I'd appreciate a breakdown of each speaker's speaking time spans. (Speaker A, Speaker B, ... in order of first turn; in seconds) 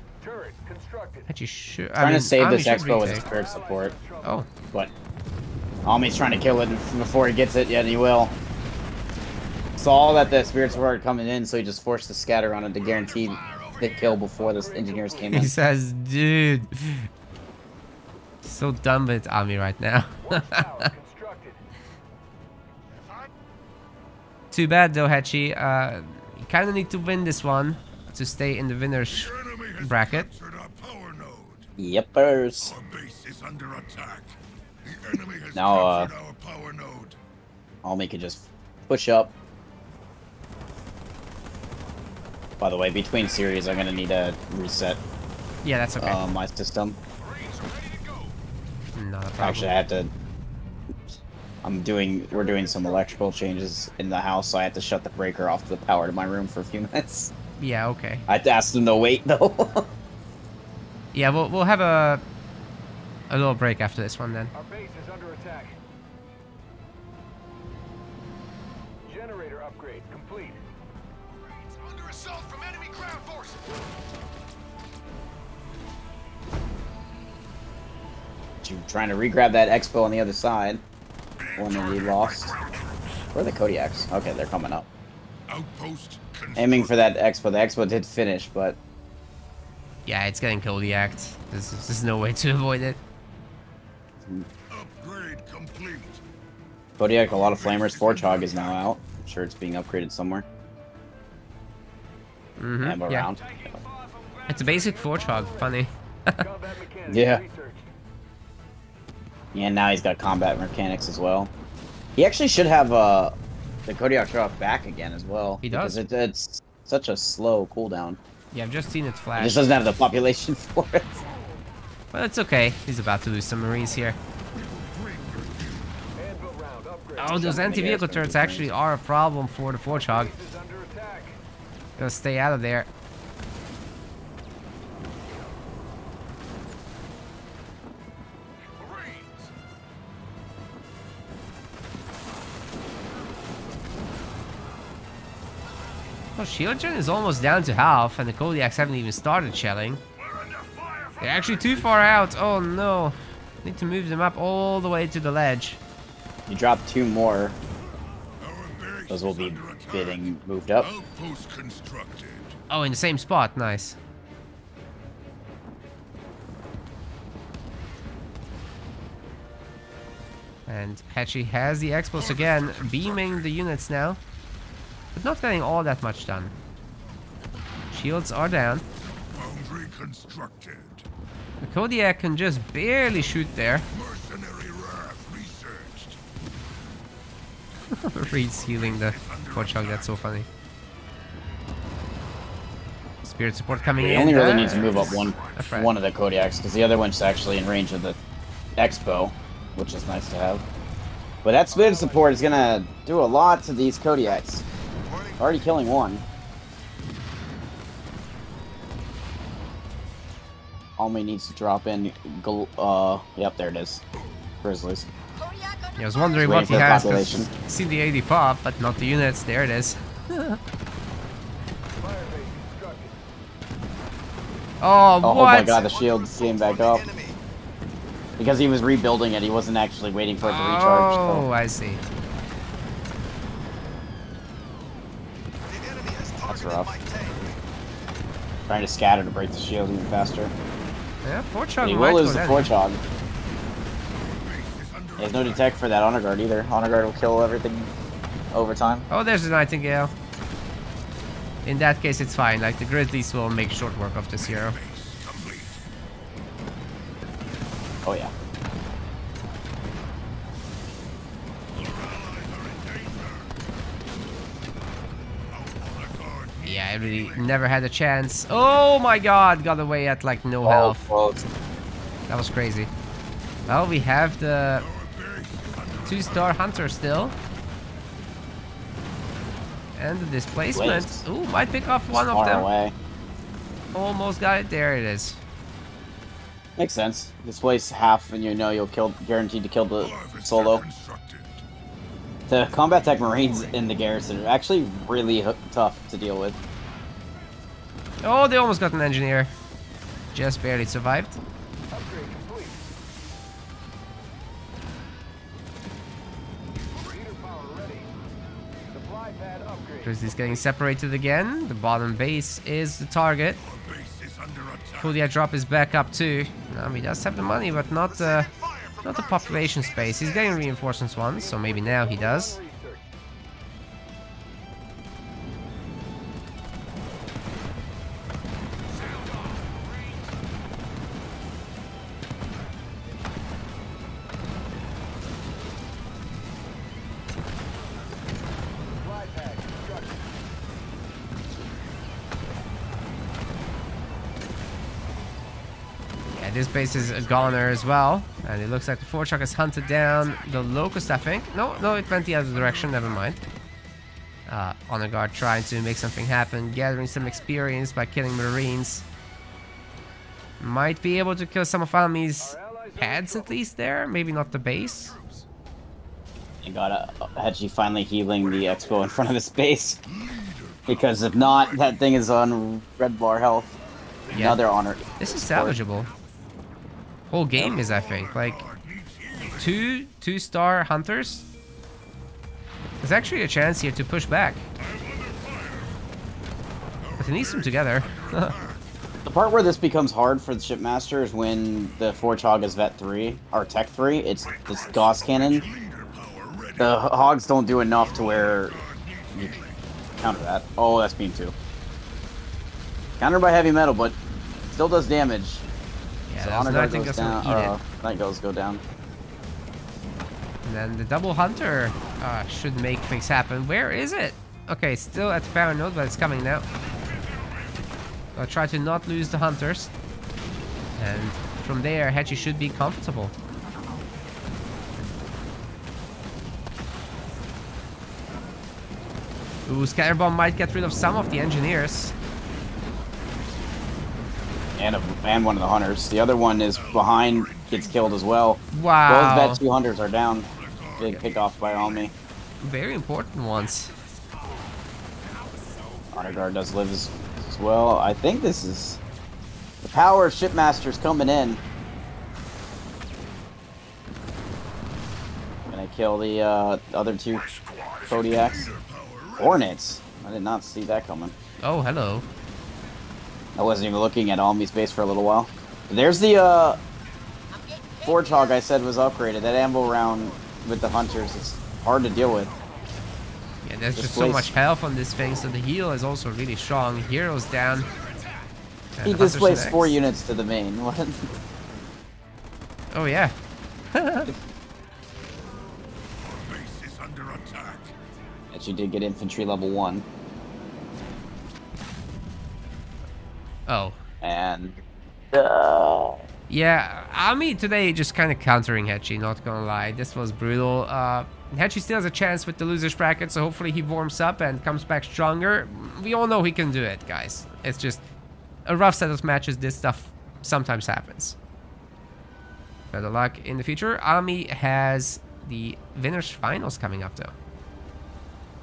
Speaker A: 0.2-1.3, 2.8-4.4, 14.4-15.5, 20.2-21.6, 52.3-53.2, 64.5-65.8, 69.0-70.6, 104.6-105.7, 106.4-107.9, 126.2-127.7, 129.9-131.4, 201.7-202.5, 222.0-223.2, 301.9-302.9, 307.0-308.1, 308.9-310.7, 321.3-323.1, 339.0-340.2, 362.4-363.6
Speaker B: 1.3-3.2, 4.2-4.5, 15.3-17.1, 18.4-20.9, 24.5-30.3, 45.6-46.2, 48.9-49.7, 57.6-58.2, 61.1-62.2, 63.3-64.5, 90.0-93.0, 102.6-103.3, 104.5-106.4, 115.6-116.0, 118.5-119.7, 122.1-124.2, 127.2-130.3, 132.0-132.9, 146.3-150.0, 151.2-155.8, 162.7-164.0, 170.7-174.2, 175.1-176.5, 177.9-178.8, 181.6-183.8, 187.9-190.5, 193.2-195.9, 216.0-220.6, 224.8-225.8, 230.4-232.0, 241.2-242.7, 249.1-250.1, 251.6-254.8, 266.6-271.1, 272.3-272.9, 273.7-274.9, 276.1-277.3, 279.9-282.7, 283.9-285.4, 298.2-299.5, 300.3-301.4, 310.0-313.6, 315.0-318.5, 319.0-322.6, 346.4-353.4, 354.5-359.0, 360.6-365.1, 374.3-374.6, 375.2-376.1, 377.3-378.6, 379.6-381.4, 383.0-384.7, 387.2-388.5, 406.3-407.8, 410.6-416.6, 418.3-419.9, 421.0-423.3, 429.6-432.1, 438.7-439.6, 442.6-443.9, 461.6-462.2, 473.6-477.9, 478.9-479.9, 482.9-483.3, 483.9-484.3, 493.7-494.0, 496.5-508.0, 508.6-511.4, 512.9-517.3
Speaker C: 2.0-3.9, 5.8-8.3, 9.8-15.5, 31.8-32.7, 35.5-36.1, 37.8-39.3, 42.6-45.0, 46.0-47.0, 49.4-50.1, 51.6-57.3, 58.3-59.9, 78.6-80.8, 81.5-82.5, 83.3-84.9, 86.5-88.8, 97.0-100.4, 102.8-103.4, 107.1-107.4, 109.5-111.5, 112.2-113.3, 113.8-118.2, 119.4-121.1, 127.3-128.7, 156.5-157.6, 159.1-160.9, 194.0-198.2, 198.8-200.6, 201.4-204.6, 205.4-206.2, 211.0-214.0, 214.6-215.1, 216.3-217.5, 225.2-227.1, 228.4-231.4, 236.4-236.9, 238.7-240.5, 241.8-243.0, 245.2-247.9, 248.5-249.1, 258.0-258.3, 270.6-271.4, 280.7-281.2, 282.1-282.9, 286.8-290.8, 292.5-296.6, 366.6-370.0, 370.9-373.7, 374.3-375.8, 377.6-377.9, 389.2-395.6, 396.8-398.8, 400.2-401.5, 403.2-404.2, 404.7-405.6, 406.3-408.8, 434.8-440.5, 441.0-442.1, 446.1-449.0, 449.8-451.6, 455.7-457.5, 458.1-458.7, 459.4-461.3, 463.6-466.8, 468.0-472.5, 473.9-474.5, 479.0-481.3, 488.5-490.0, 494.2-496.2
Speaker D: 12.8-14.3, 29.1-31.7, 32.6-37.2, 47.2-48.3, 71.4-73.7, 81.4-83.3, 85.5-87.0, 94.7-96.2, 97.2-98.9, 103.4-104.8, 124.5-125.9, 138.8-139.5, 150.2-151.9, 158.4-162.6, 172.1-173.6, 179.3-181.1, 183.9-186.2, 188.2-190.2, 193.7-195.6, 244.1-245.7, 254.4-255.8, 261.7-263.5, 265.5-267.5, 274.7-276.6, 290.0-291.6, 313.6-315.2, 329.1-329.8, 346.9-348.0, 349.9-350.6, 351.6-353.3, 370.0-372.1, 377.6-379.9, 384.8-386.0, 387.0-389.1, 394.4-397.0, 397.9-400.0, 436.7-438.2, 440.5-442.1, 443.9-444.7, 445.2-446.4, 457.3-459.7, 477.5-478.5, 486.2-487.9
Speaker E: 205.0-205.4, 225.6-227.4, 235.6-237.5, 318.0-320.8